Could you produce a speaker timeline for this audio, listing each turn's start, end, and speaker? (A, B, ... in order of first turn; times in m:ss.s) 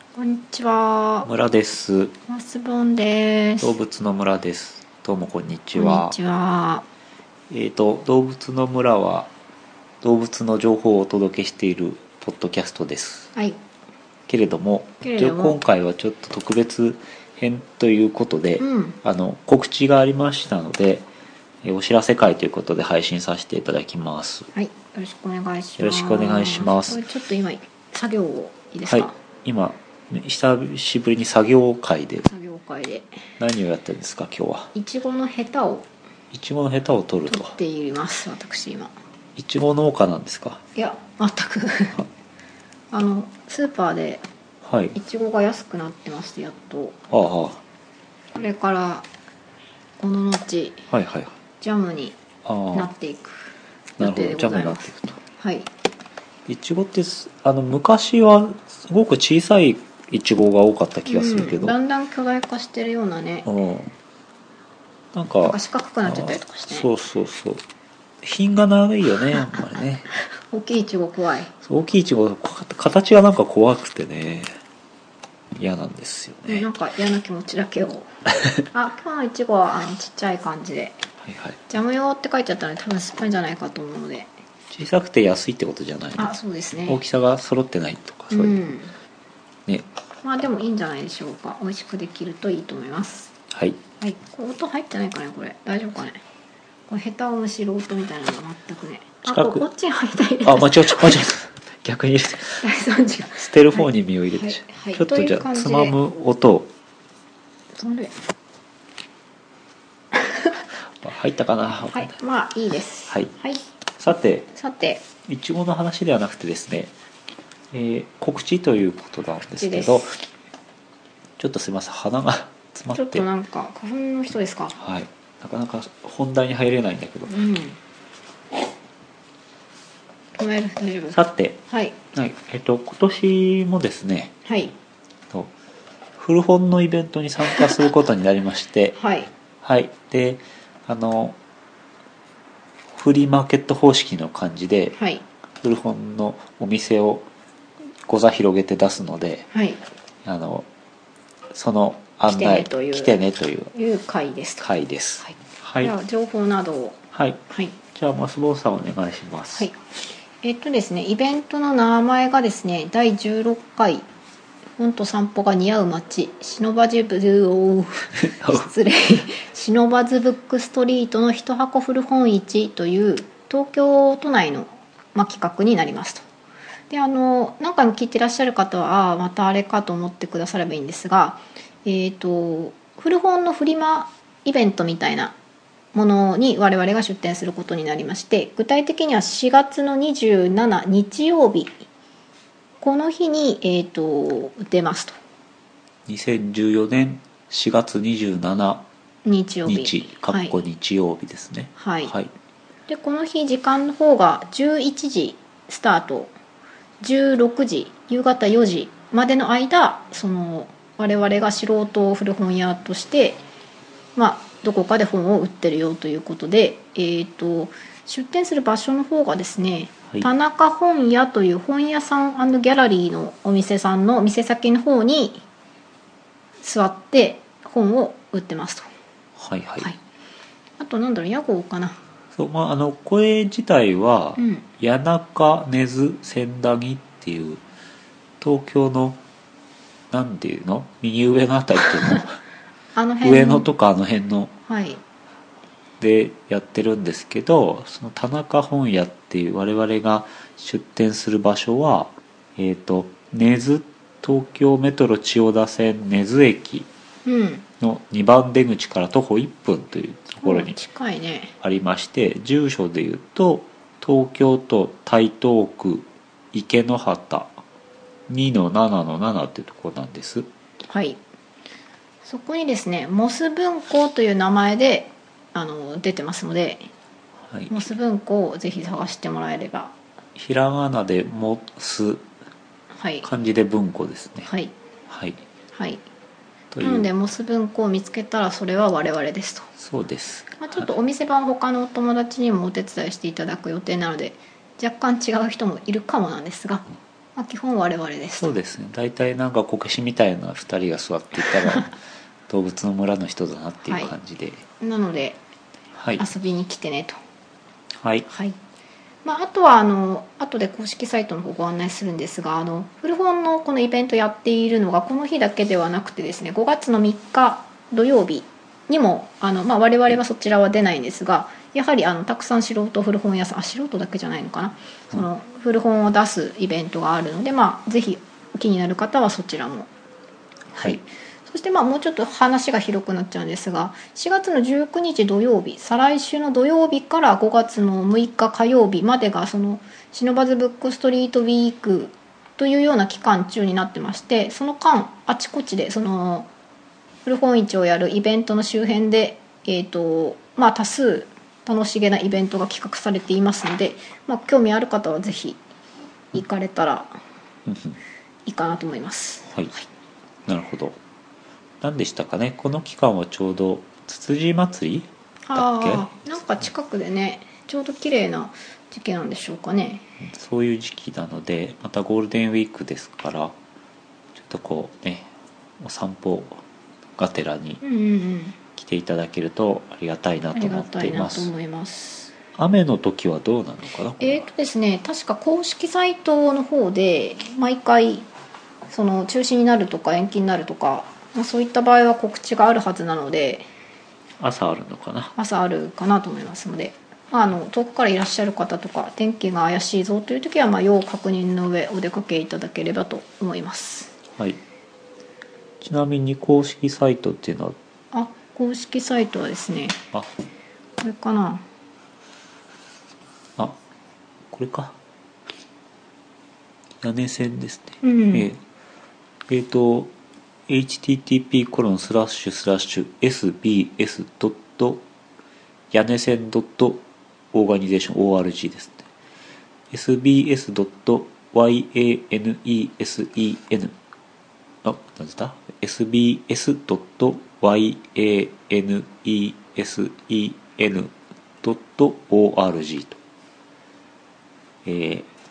0:00.2-0:01.3 A
0:01.2-0:02.2 B
0:02.3-0:03.8 A
0:03.6-0:06.2 B
0:05.8-0:06.8 A
0:07.5-0:09.3 B
0:10.0-0:13.3 B
0:13.4-0:13.6 A
0:14.3-0:21.1 B
0:15.0-0:15.6 A
0:18.6-0:19.0 A
0:21.6-0:24.5 B
0:24.5-0:29.1 A
0:25.8-0:27.0 B
0:28.9-0:32.3 B
0:32.3-0:33.1 A
0:33.4-0:34.7 B
0:34.7-0:35.9 A
0:36.3-0:37.6 B
0:37.3-0:38.9 A
0:39.4-0:40.6 B
0:40.8-0:42.0 A
0:42.9-0:44.2 A
0:44.6-0:45.0 B
0:45.0-0:47.0 A
0:47.1-0:47.6 B
0:48.3-0:49.1 A
0:50.0-0:50.9 A
0:50.9-0:51.4 B
0:51.6-0:52.2 A
0:52.4-0:52.9 B
0:52.7-0:55.7 A
0:54.0-0:55.2 B
0:56.5-1:01.8 B
1:01.1-1:03.5 A
1:03.4-1:03.9 B
1:05.1-1:07.6 B
1:05.4-1:06.9 A
1:08.2-1:10.1 B
1:10.5-1:11.5 A
1:11.6-1:14.5 B
1:15.6-1:16.7 B
1:16.5-1:18.1 A
1:18.7-1:21.0 A
1:21.2-1:21.6 B
1:21.7-1:24.3 A
1:24.7-1:26.3 B
1:26.2-1:27.0 A
1:26.9-1:28.8 B
1:28.3-1:28.9 A
1:30.2-1:33.3 A
1:33.5-1:33.8 B
1:34.0-1:36.2 A
1:36.9-1:41.3 A
1:39.3-1:39.7 B
1:40.4-1:42.6 B
1:42.5-1:46.0 A
1:43.4-1:46.7 B
1:47.8-1:48.1 A
1:50.2-1:50.5 A
1:51.0-1:52.2 B
1:51.9-1:53.6 A
1:54.0-1:54.5 B
1:54.5-1:55.0 A
1:55.3-1:56.9 B
1:57.7-2:00.2 B
1:59.6-2:00.1 A
2:01.4-2:03.3 B
2:02.9-2:04.8 A
2:04.8-2:07.4 B
2:07.3-2:07.8 A
2:10.4-2:12.0 A
2:11.1-2:11.6 B
2:12.1-2:14.3 B
2:14.5-2:14.7 A
2:16.2-2:19.0 B
2:19.0-2:19.3 A
2:19.6-2:21.4 B
2:22.9-2:25.0 B
2:25.0-2:25.2 A
2:25.6-2:27.3 B
2:28.1-2:29.5 B
2:29.5-2:29.8 A
2:30.2-2:30.7 B
2:31.5-2:33.7 B
2:32.3-2:33.2 A
2:33.7-2:34.7 A
2:34.6-2:35.9 B
2:35.2-2:37.0 A
2:37.1-2:37.4 B
2:37.5-2:37.8 A
2:37.9-2:39.7 B
2:40.4-2:44.0 A
2:44.8-2:56.2 A
2:48.2-2:48.7 B
2:56.9-3:05.4 A
3:05.9-3:11.8 A
3:12.8-3:15.2 A
3:16.1-3:18.9 B
3:19.2-3:20.6 A
3:19.7-3:22.3 B
3:21.8-3:22.1 A
3:22.9-3:26.3 A
3:27.0-3:33.4 A
3:34.2-3:45.4 A
3:46.6-3:48.9 A
3:49.4-3:49.9 B
3:50.8-3:52.0 A
3:52.4-3:57.6 B
3:54.4-3:54.7 A
3:58.4-3:59.2 B
4:00.1-4:02.4 B
4:03.0-4:03.7 A
4:03.2-4:04.5 B
4:04.7-4:05.0 A
4:06.0-4:16.9 B
4:17.2-4:17.6 A
4:17.8-4:20.8 B
4:20.4-4:21.5 A
4:21.6-4:27.5 B
4:28.3-4:30.5 B
4:30.9-4:31.2 A
4:32.2-4:36.9 A
4:37.5-4:37.8 B
4:37.7-4:39.9 A
4:40.4-4:42.3 B
4:43.0-4:43.3 A
4:43.2-4:44.5 B
4:44.5-4:44.7 A
4:45.1-4:45.4 B
4:45.7-4:46.0 A
4:46.7-4:47.1 B
4:46.8-4:49.7 A
4:49.8-4:50.9 B
4:50.6-4:58.6 A
4:58.4-5:01.9 B
5:02.5-5:04.6 B
5:03.8-5:04.1 A
5:04.8-5:05.4 A
5:06.0-5:06.2 B
5:06.2-5:07.2 A
5:08.0-5:08.3 B
5:08.3-5:08.6 A
5:09.2-5:29.9 A
5:30.7-5:46.5 A
5:47.3-5:55.6 A
5:56.3-5:57.2 A
5:57.7-5:58.0 B
5:58.5-5:59.9 A
6:00.5-6:01.0 B
6:01.8-6:06.1 B
6:05.5-6:10.0 A
6:10.2-6:13.5 B
6:14.4-6:16.6 B
6:17.2-6:17.8 B
6:17.8-6:18.6 A
6:18.8-6:21.5 B
6:20.5-6:22.3 A
6:22.6-6:24.5 B
6:24.2-6:28.3 A
6:28.9-6:33.7 A
6:34.4-6:35.3 B
6:35.4-6:44.2 A
6:45.8-6:47.8 B
6:48.1-6:50.0 A
6:51.0-6:51.6 A
6:54.5-6:55.0 B
6:57.0-6:58.6 B
6:58.0-6:58.5 A
6:59.5-7:00.1 B
7:00.7-7:05.0 B
7:05.9-7:07.0 B
7:07.5-7:09.1 B
7:09.9-7:13.9 B
7:14.8-7:23.2 B
7:24.8-7:25.3 B